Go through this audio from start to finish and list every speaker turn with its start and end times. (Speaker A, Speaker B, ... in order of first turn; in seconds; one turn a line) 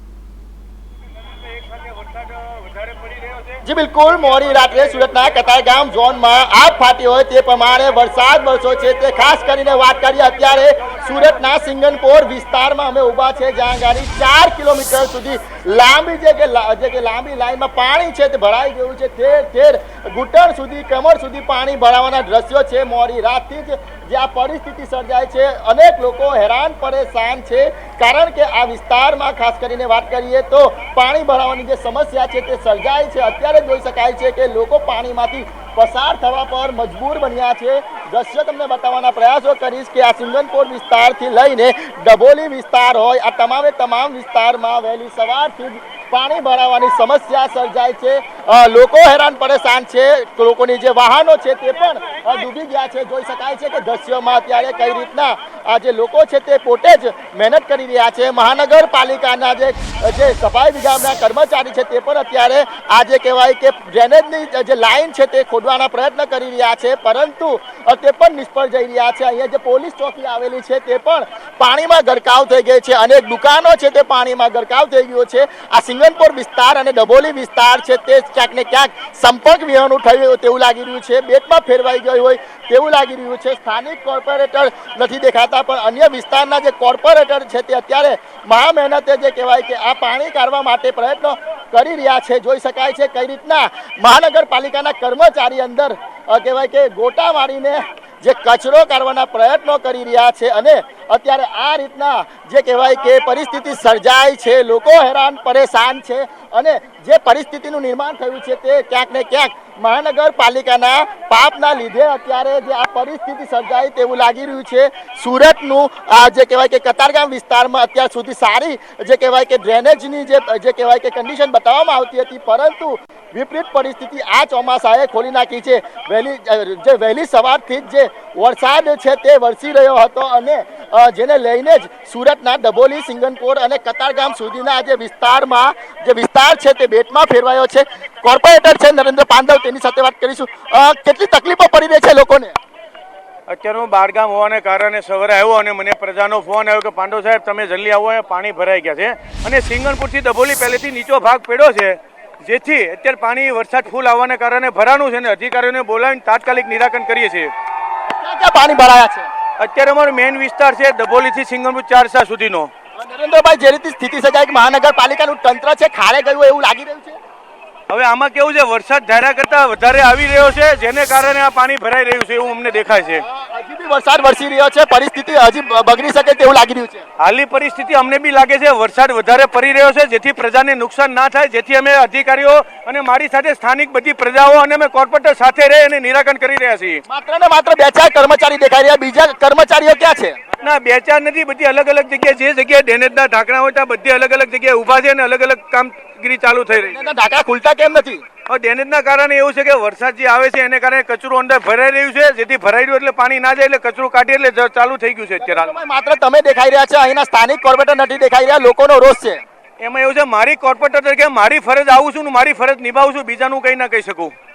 Speaker A: 1.7-3.6
Speaker B: 3.6-142.6
Speaker A: 143.5-157.5
Speaker B: 158.1-159.3
Speaker A: 159.6-162.7
Speaker B: 163.0-167.2
Speaker A: 167.9-173.2
Speaker B: 173.2-177.0
Speaker A: 177.2-187.0
Speaker B: 187.1-190.4
Speaker A: 190.6-197.0
Speaker B: 196.8-198.2
Speaker A: 198.5-205.7
Speaker B: 205.4-209.4
Speaker A: 209.8-214.3